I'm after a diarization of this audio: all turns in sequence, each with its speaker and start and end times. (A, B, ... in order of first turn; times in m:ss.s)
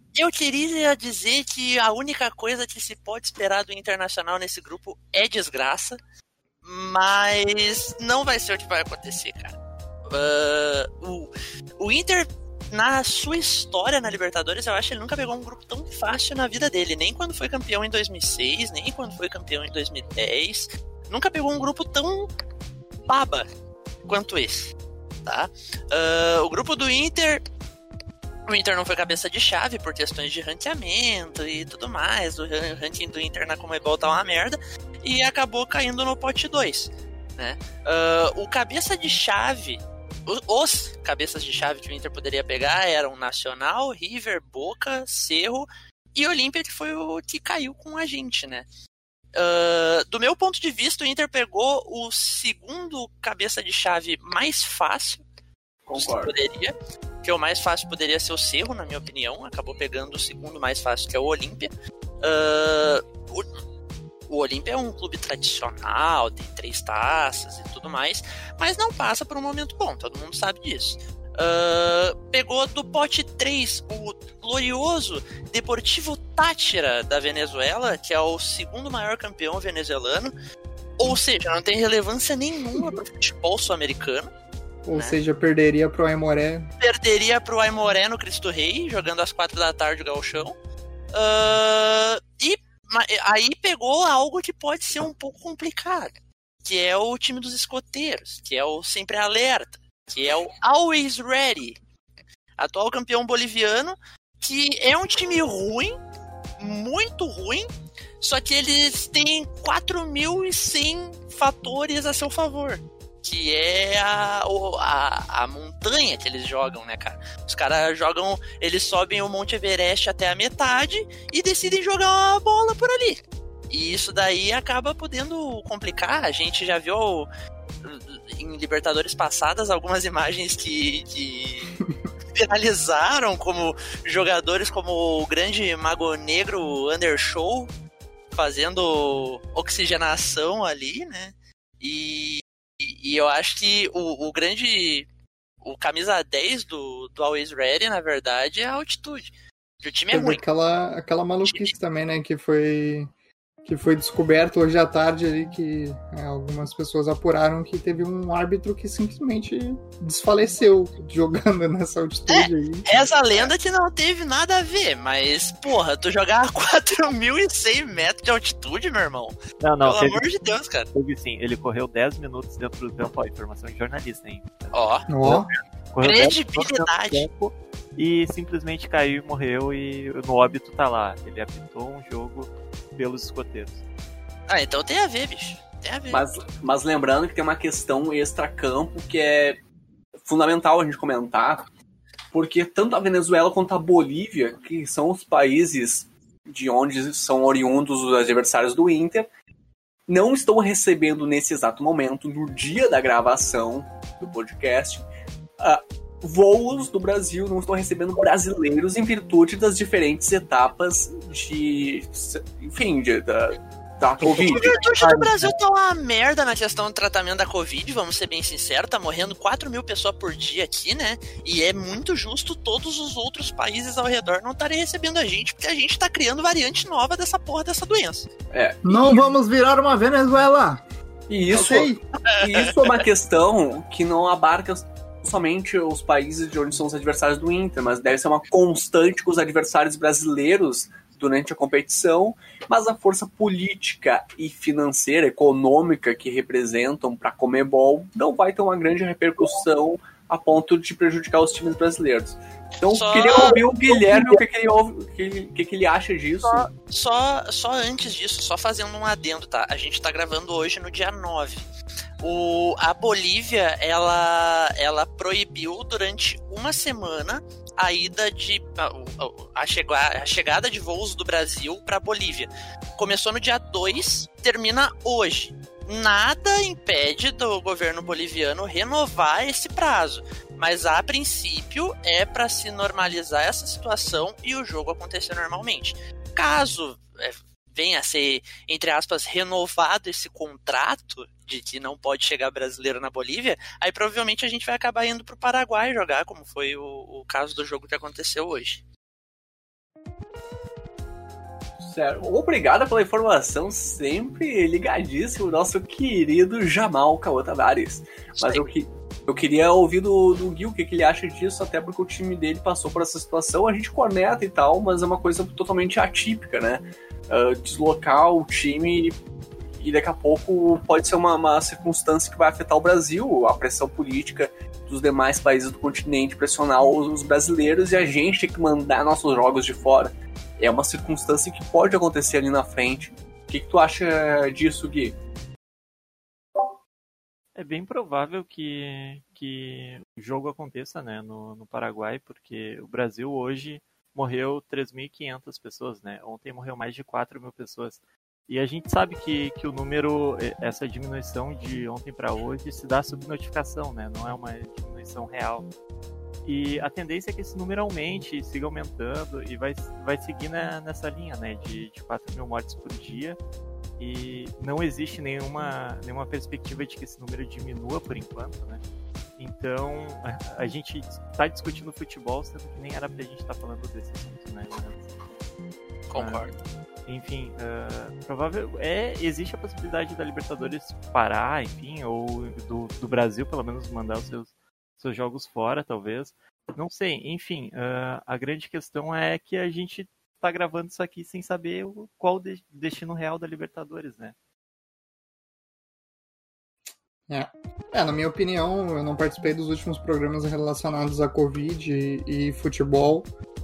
0:00.2-0:06.0 A
0:06.6-0:09.6 A
0:10.1-0:22.3 A
0:23.1-0:23.5 A
0:24.1-0:24.7 A
0:25.2-0:27.4 A
0:28.5-0:48.6 A
0:49.4-0:55.2 A
0:55.9-0:56.4 B
0:56.0-1:01.7 A
1:02.2-1:03.5 A
1:04.3-1:20.3 A
1:21.0-1:24.3 A
1:24.8-1:26.7 C
1:24.9-1:25.2 A
1:26.8-1:30.6 A
1:31.1-1:36.1 A
1:36.6-1:41.8 A
1:42.6-1:46.0 A
1:46.6-1:47.7 A
1:48.2-2:07.3 A
2:07.8-2:11.8 A
2:12.4-2:17.7 A
2:18.3-2:25.1 A
2:25.6-2:30.4 A
2:30.1-2:33.1 C
2:31.4-2:31.7 A
2:33.6-2:42.9 C
2:42.3-2:50.9 A
2:49.6-2:50.2 D
2:50.9-3:03.8 D
2:54.7-2:55.1 A
2:55.1-2:55.5 C
2:56.0-2:57.3 A
3:04.5-3:06.2 A
3:06.1-3:09.6 B
3:10.2-3:11.7 B
3:12.3-3:19.3 B
3:20.1-3:25.1 B
3:25.6-3:34.8 B
3:34.2-3:48.3 A
3:35.0-3:35.5 D
3:48.5-3:49.2 B
3:48.8-3:50.8 C
3:51.3-4:16.7 B
3:51.5-3:52.0 C
4:12.9-4:14.4 A
4:16.4-4:21.6 A
4:22.2-4:58.8 A
5:01.8-5:19.2 B
5:08.4-5:08.7 A
5:19.8-5:35.2 B
5:37.6-5:55.7 D
5:56.4-6:03.4 D
6:04.0-6:08.8 D
6:09.4-6:15.1 D
6:16.1-6:16.6 A
6:16.2-6:16.4 D
6:17.1-6:34.4 D
6:37.3-6:43.3 C